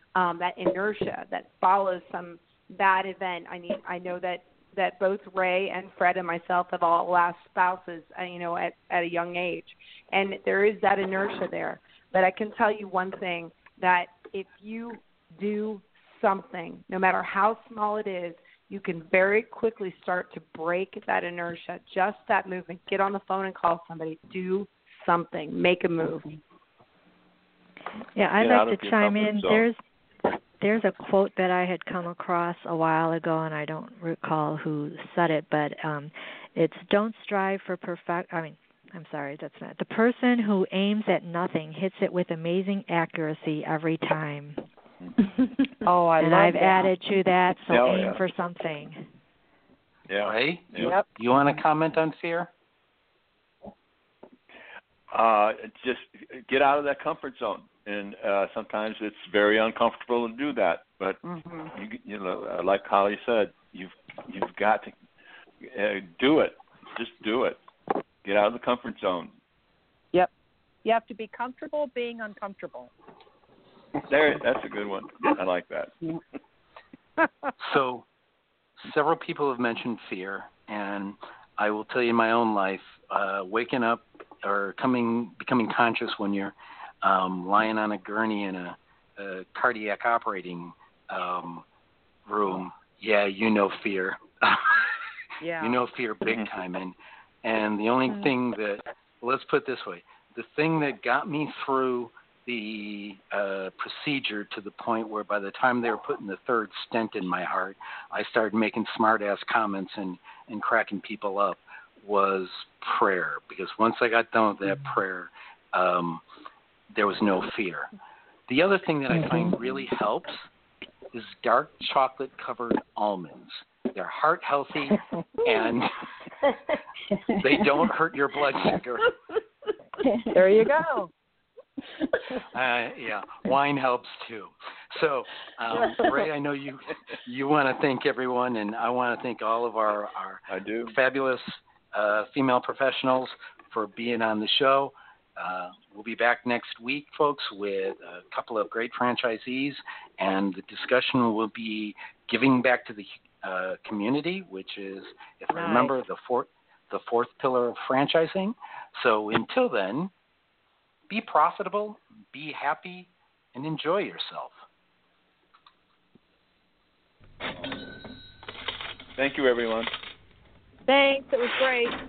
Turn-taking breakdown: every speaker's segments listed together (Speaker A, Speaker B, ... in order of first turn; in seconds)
Speaker A: 0.1-26.4
Speaker B: 28.2-29.8, 30.6-44.6, 46.2-49.1
Speaker C: 28.4-29.7, 47.7-48.2, 50.1-51.0, 55.1-64.9, 65.6-67.6, 68.2-69.3, 74.1-75.9, 140.5-140.9, 169.2-169.9
Speaker D: 45.8-46.9, 61.2-61.7, 70.8-72.9, 95.4-95.8, 130.3-131.1, 155.5-156.0, 170.9-171.9
Speaker E: 50.2-52.5, 77.6-78.1, 78.8-91.7, 92.3-95.0, 95.6-116.2, 116.9-117.9, 118.5-120.5, 121.1-125.9, 127.4-129.2, 132.5-160.1, 161.1-164.6